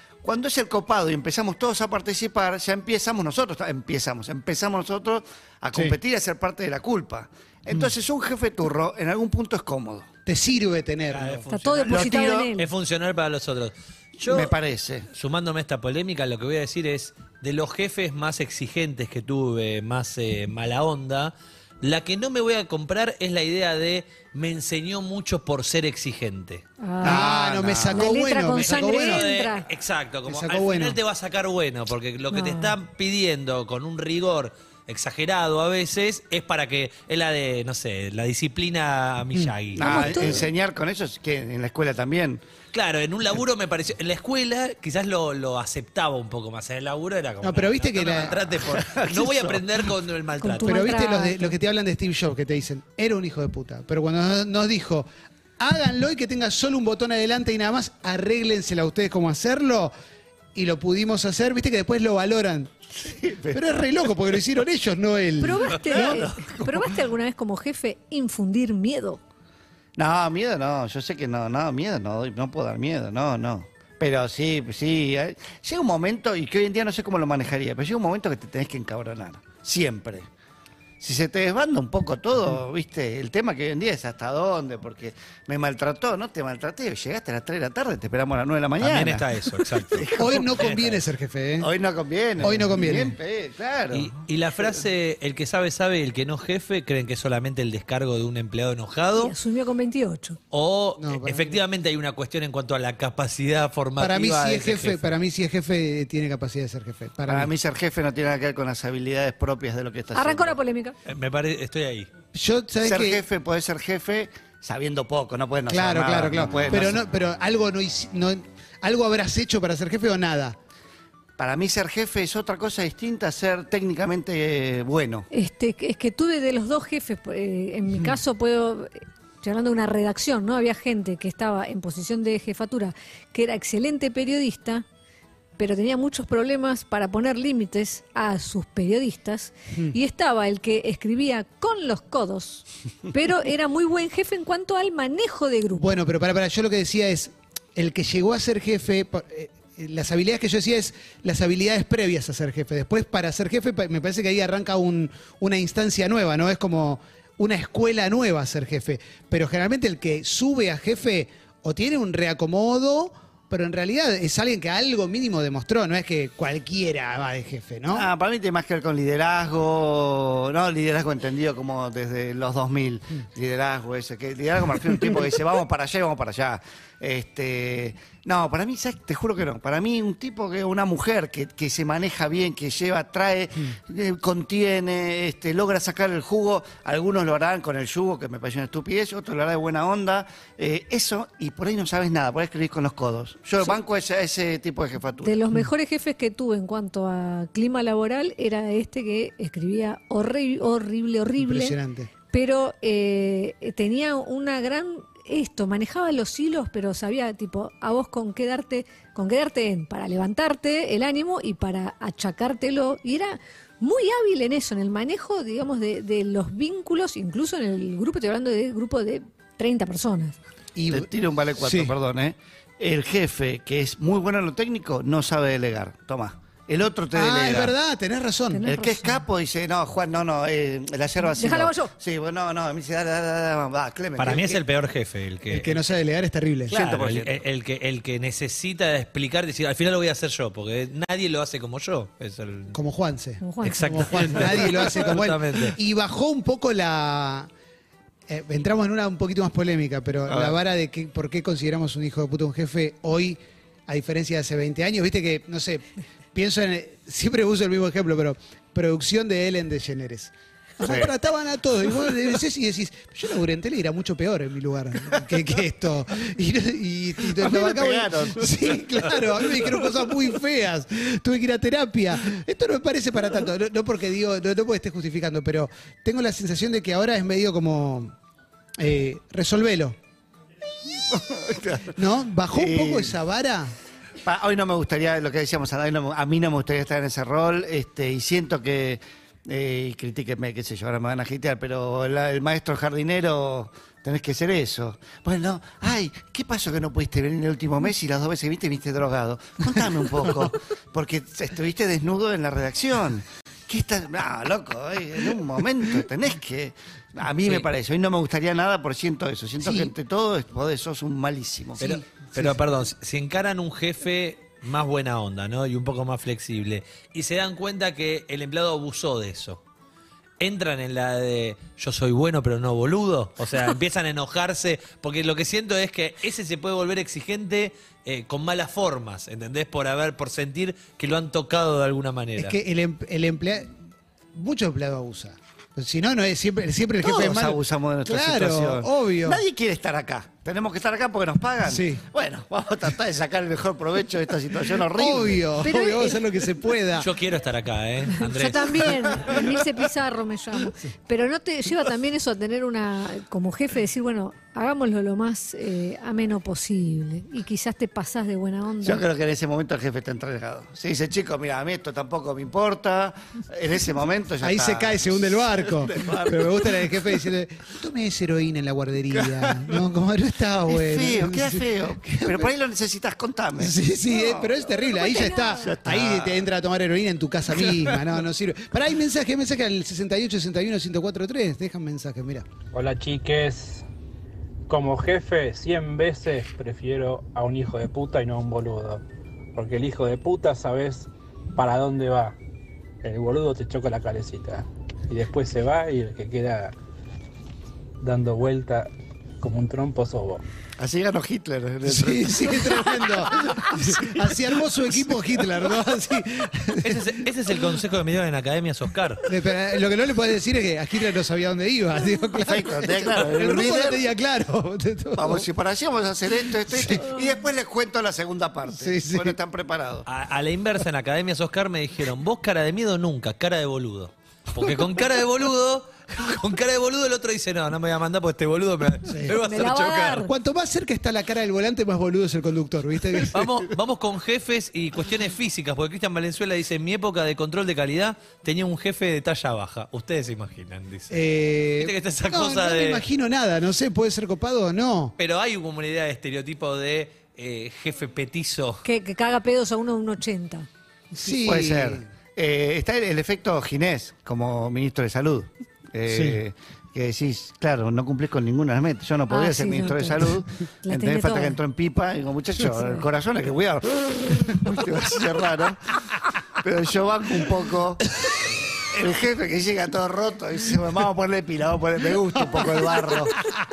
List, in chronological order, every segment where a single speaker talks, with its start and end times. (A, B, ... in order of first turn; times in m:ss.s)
0:00.2-0:10.1 A
0:10.2-0:11.4 B
0:11.1-0:14.5 C
0:11.5-0:12.7 D
0:11.9-0:12.5 A
0:14.2-0:15.0 A
0:15.1-0:27.8 C
0:26.8-0:27.3 D
0:27.0-0:29.2 B
0:27.0-0:27.9 A
0:27.9-0:29.6 D
0:28.6-0:40.4 C
0:30.2-0:31.0 B
0:32.3-0:32.8 D
0:39.8-0:40.4 D
0:39.8-0:42.4 A
0:42.7-0:50.8 C
0:47.4-0:48.4 B
0:48.7-0:49.8 A
0:50.4-0:51.5 D
0:50.6-0:55.1 B
0:55.6-0:59.9 B
1:00.5-1:02.7 B
1:03.0-1:03.8 A
1:03.5-1:06.2 B
1:05.4-1:09.2 D
1:05.9-1:06.8 A
1:10.0-1:20.3 A
1:21.0-1:29.2 A
1:28.8-1:31.0 C
1:29.9-1:30.6 A
1:30.2-1:31.7 B
1:31.6-1:34.1 A
1:32.4-1:33.2 B
1:33.9-1:39.3 C
1:39.2-1:40.4 D
1:40.5-1:45.0 C
1:41.0-1:41.6 B
1:44.0-1:47.5 B
1:47.3-1:50.6 A
1:50.1-1:51.0 D
1:51.0-1:52.1 C
1:52.3-1:53.2 B
1:52.8-1:57.0 A
1:55.7-2:00.6 B
2:01.4-2:05.3 A
2:05.3-2:14.8 D
2:15.6-2:26.0 D
2:25.7-2:48.1 B
2:47.9-3:15.4 A
3:15.2-3:21.8 D
3:21.4-3:22.1 B
3:22.3-3:40.4 D
3:40.7-3:41.9 B
3:40.9-3:47.7 A
3:47.1-3:48.6 B
3:48.5-3:49.2 D
3:48.6-3:54.6 A
3:51.2-3:51.9 D
3:54.2-3:55.8 C
3:55.5-3:56.8 B
3:56.7-4:02.8 C
3:56.7-3:57.4 A
4:02.7-4:07.5 B
4:03.4-4:04.4 D
4:03.6-4:05.8 C
4:08.3-4:38.1 B
4:20.8-4:21.1 A
4:27.3-4:29.8 A
4:38.8-4:40.0 B
4:41.0-4:41.9 A
4:41.9-4:43.8 B
4:42.5-4:43.2 A
4:44.2-5:11.8 A
5:09.6-5:09.9 B
5:11.8-5:12.6 B
5:11.8-5:19.6 C
5:20.4-5:32.5 C
5:32.4-5:33.7 B
5:34.3-5:39.4 B
5:37.0-5:46.2 A
5:41.6-5:42.0 B
5:44.9-5:47.1 B
5:47.0-5:49.2 C
5:48.2-5:59.0 D
5:58.8-6:07.1 A
6:04.4-6:12.5 B
6:09.2-6:09.8 A
6:10.7-6:14.5 A
6:13.6-6:22.4 B
6:14.7-6:15.6 D
6:15.6-6:16.4 A
6:17.6-6:18.0 A
6:22.7-6:23.8 E
6:24.7-6:29.0 E
6:29.5-6:32.4 E
6:33.0-6:36.7 E
6:38.0-6:40.4 E
6:40.8-6:44.3 A
6:41.8-6:47.2 B
6:46.8-6:49.2 C
6:49.2-6:55.5 B
6:52.4-6:54.0 A
6:55.1-7:00.0 A
6:56.6-6:57.1 B
6:58.7-6:59.4 B
7:00.1-7:10.2 C
7:09.0-7:09.4 B
7:09.4-7:10.3 D
7:10.2-7:13.6 B
7:13.3-7:21.2 C
7:21.1-7:25.1 B
7:21.8-7:23.0 C
7:25.2-7:28.8 C
7:28.8-7:30.7 D
7:31.1-7:32.1 B
7:31.2-7:46.0 A
7:36.1-7:36.4 B
7:39.3-7:40.3 D
7:40.8-7:41.6 D
7:46.5-7:48.0 A
7:48.9-7:53.3 A
7:52.5-7:53.3 B